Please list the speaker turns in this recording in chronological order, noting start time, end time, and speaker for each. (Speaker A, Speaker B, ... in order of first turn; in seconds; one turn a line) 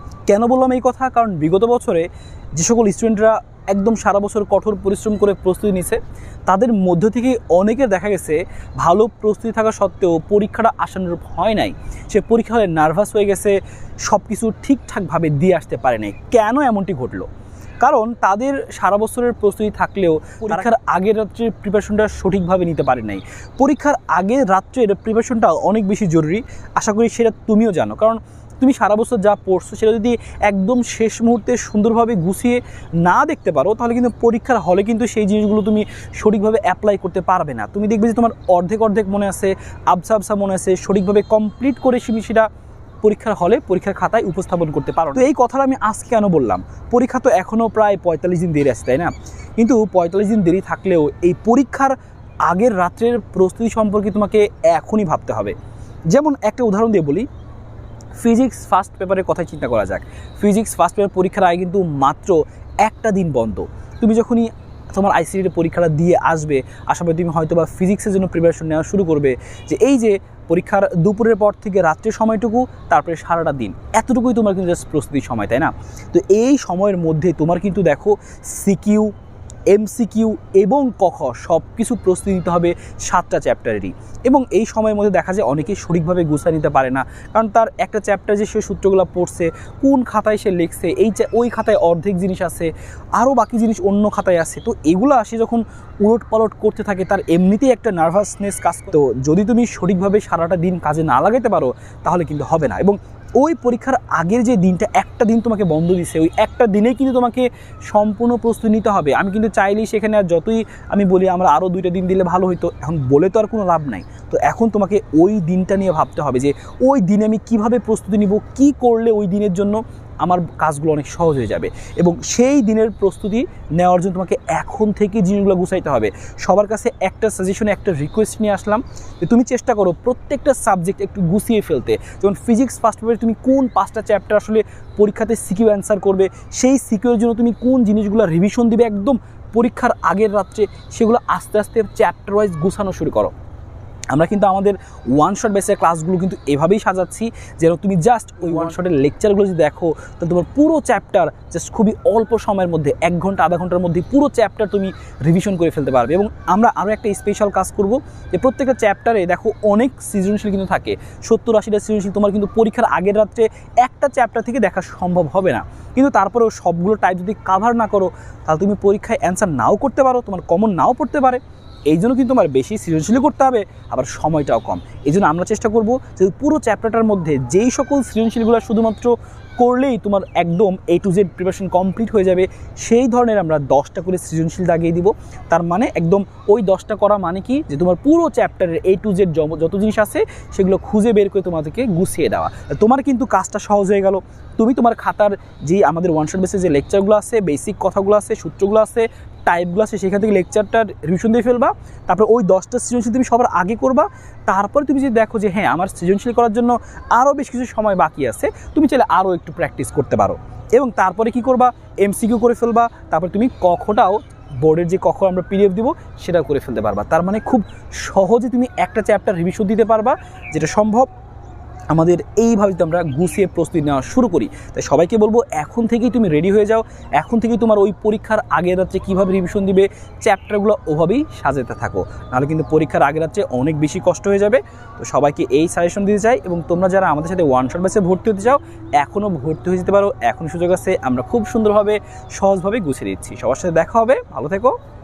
Speaker A: 0.3-17.3
Speaker A: 17.8-42.5
Speaker A: 43.0-55.5
Speaker A: 56.1-57.3
Speaker A: 58.2-79.1
Speaker A: 79.7-143.3
Speaker A: 144.1-221.1
Speaker A: 221.9-244.7